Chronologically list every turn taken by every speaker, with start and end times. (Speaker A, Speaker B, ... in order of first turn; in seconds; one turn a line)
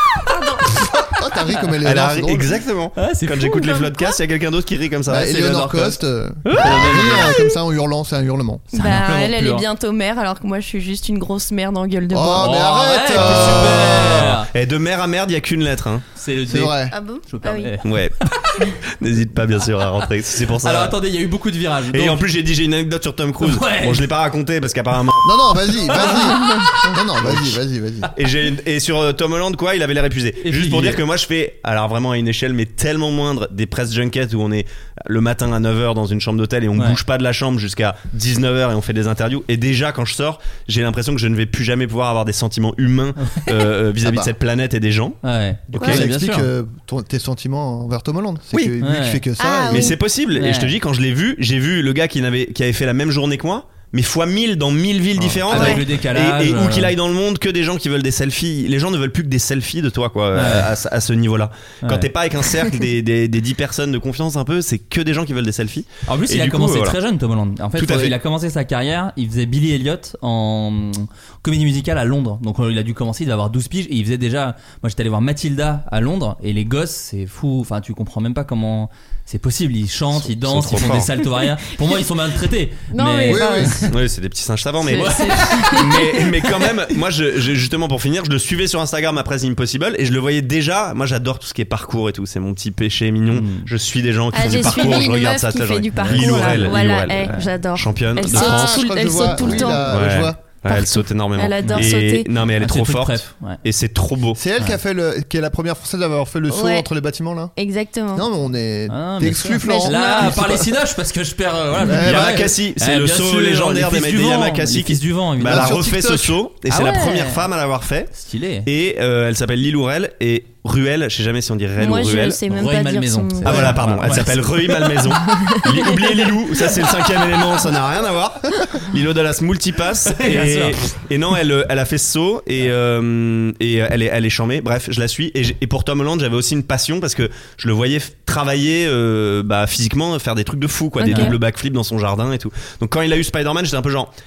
Speaker A: 0.3-0.7
Speaker B: 0.7-2.5
Speaker C: 1.8-5.3
Speaker D: 3.0-3.8
Speaker B: 5.1-8.7
Speaker D: 5.1-7.3
Speaker C: 6.5-7.3
Speaker D: 8.7-9.7
Speaker A: 8.7-12.5
Speaker B: 12.1-14.3
Speaker D: 12.3-14.5
Speaker C: 13.1-16.0
Speaker D: 16.1-18.7
Speaker B: 16.5-16.9
Speaker A: 16.9-17.8
Speaker C: 17.8-18.2
Speaker C: 18.8-21.0
Speaker D: 20.6-22.2
Speaker C: 21.9-25.4
Speaker D: 23.4-24.1
Speaker B: 25.2-28.1
Speaker C: 25.9-26.2
Speaker D: 25.9-26.5
Speaker C: 27.2-27.6
Speaker C: 28.1-45.2
Speaker D: 30.4-31.0
Speaker D: 43.2-43.5
Speaker B: 44.0-44.3
Speaker D: 45.2-46.5
Speaker C: 45.7-46.0
Speaker B: 45.8-50.0
Speaker D: 48.6-49.2
Speaker A: 49.4-50.0
Speaker C: 49.7-67.0
Speaker D: 50.3-50.7
Speaker D: 55.2-56.9
Speaker A: 55.5-55.8
Speaker D: 60.3-60.7
Speaker D: 61.8-62.1
Speaker D: 66.1-83.9
Speaker C: 67.8-68.1
Speaker C: 80.1-81.1
Speaker A: 82.9-83.9
Speaker B: 83.3-83.8
Speaker C: 83.9-104.4
Speaker A: 84.8-86.5
Speaker D: 84.9-86.0
Speaker D: 93.3-93.7
Speaker A: 94.3-99.9
Speaker D: 96.0-97.5
Speaker B: 98.3-100.4
Speaker A: 100.7-102.3
Speaker D: 101.6-101.9
Speaker D: 102.6-103.6
Speaker B: 104.3-107.5
Speaker A: 106.5-106.8
Speaker A: 107.5-108.3
Speaker B: 108.1-110.7
Speaker D: 108.9-115.8
Speaker A: 109.6-110.7
Speaker B: 111.8-112.5
Speaker C: 111.9-118.1
Speaker B: 115.4-116.4
Speaker D: 116.7-117.5
Speaker D: 118.1-118.7
Speaker C: 118.6-122.4
Speaker A: 121.8-123.8
Speaker D: 122.5-124.5
Speaker C: 123.4-144.1
Speaker A: 124.8-126.8
Speaker D: 130.1-130.8
Speaker A: 141.0-141.3
Speaker D: 141.0-141.3